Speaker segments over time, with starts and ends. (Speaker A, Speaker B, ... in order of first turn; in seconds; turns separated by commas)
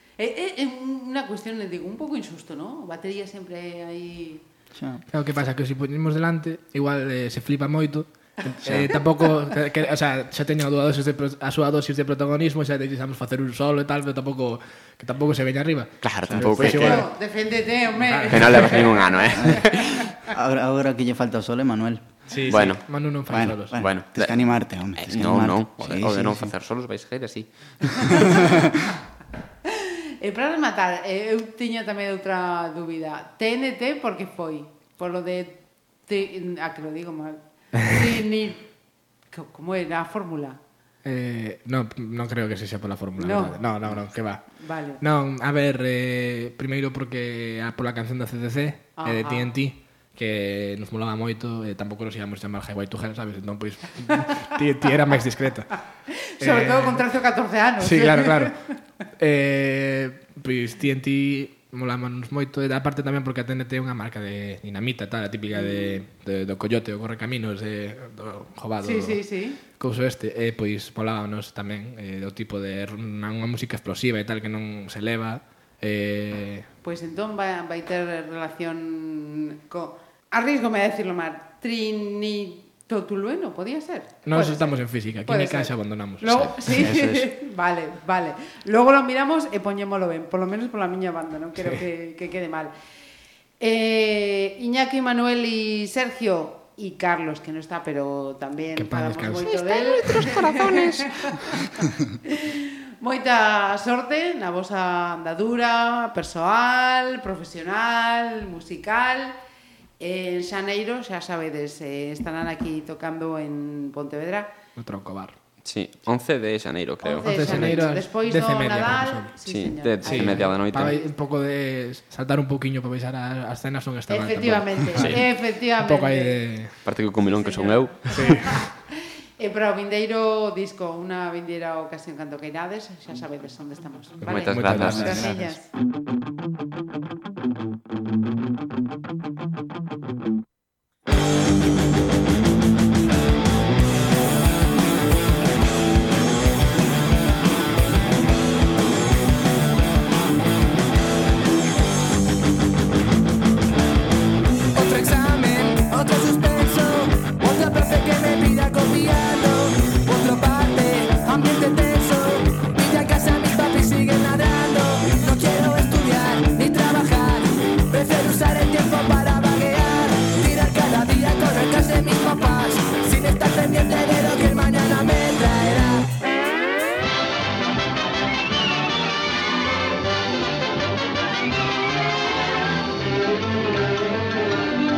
Speaker A: 0.2-4.4, Speaker B: 4.7-5.0, Speaker C: 5.1-17.1, Speaker D: 16.0-17.0, Speaker B: 16.3-16.6, Speaker A: 16.6-20.2, Speaker C: 18.0-19.6, Speaker D: 18.3-19.6, Speaker B: 19.4-22.0, Speaker C: 22.3-23.8, Speaker D: 22.5-22.9, Speaker B: 23.3-26.5, Speaker D: 23.8-24.4, Speaker D: 24.9-28.4, Speaker B: 28.1-28.6, Speaker A: 29.7-38.7, Speaker A: 39.3-40.6, Speaker C: 41.0-55.9, Speaker A: 43.2-43.6, Speaker A: 44.6-45.0, Speaker A: 49.0-49.5, Speaker A: 56.3-58.7, Speaker C: 56.4-57.0, Speaker C: 57.8-58.6, Speaker C: 59.2-76.7, Speaker A: 65.5-66.0, Speaker A: 68.8-69.6, Speaker A: 76.8-92.7, Speaker C: 84.3-86.9, Speaker B: 86.7-87.3, Speaker A: 93.6-101.6, Speaker C: 98.8-99.5, Speaker D: 99.5-101.5, Speaker A: 102.2-109.4, Speaker A: 110.0-114.5, Speaker C: 114.8-115.4, Speaker D: 115.6-117.9, Speaker A: 117.0-121.1, Speaker C: 117.2-119.3, Speaker D: 119.5-121.0, Speaker C: 120.0-126.8, Speaker A: 124.1-126.4, Speaker D: 126.8-128.4, Speaker A: 127.2-135.7, Speaker C: 128.1-128.6, Speaker C: 134.2-135.2, Speaker D: 134.2-135.2, Speaker B: 134.6-135.6, Speaker E: 154.7-176.1